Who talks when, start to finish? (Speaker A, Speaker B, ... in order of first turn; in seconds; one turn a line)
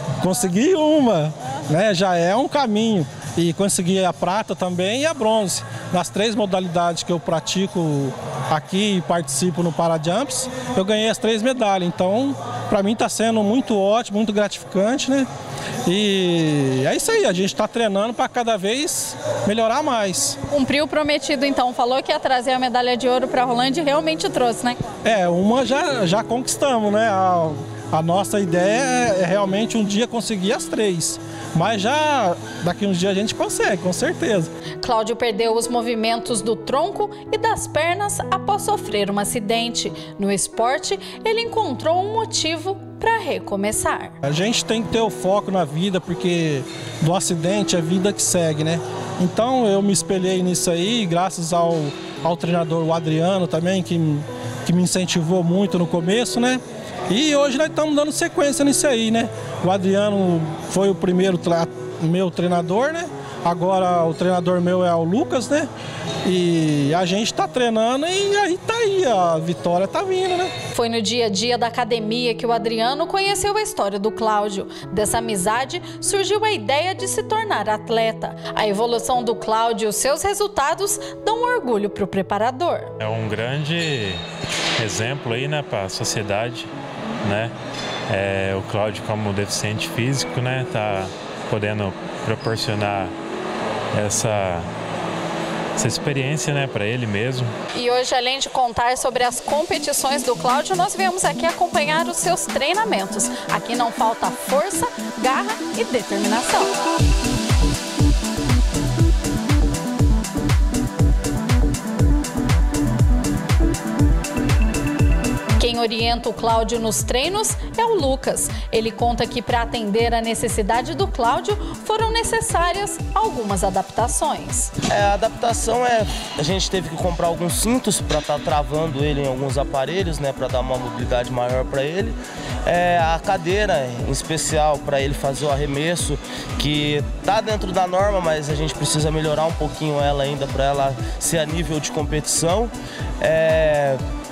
Speaker A: 0.2-15.3
Speaker A: 15.8-20.4
Speaker B: 20.5-24.8
Speaker A: 25.0-34.5
Speaker B: 34.8-44.1
Speaker A: 44.2-65.7
Speaker A: 66.2-70.5
Speaker B: 70.7-82.9
Speaker C: 83.0-84.2
Speaker C: 84.8-87.5
Speaker C: 88.1-93.1
Speaker C: 93.9-94.7
Speaker C: 95.8-97.5
Speaker B: 97.7-106.7
Speaker B: 115.6-124.7
Speaker D: 124.9-144.0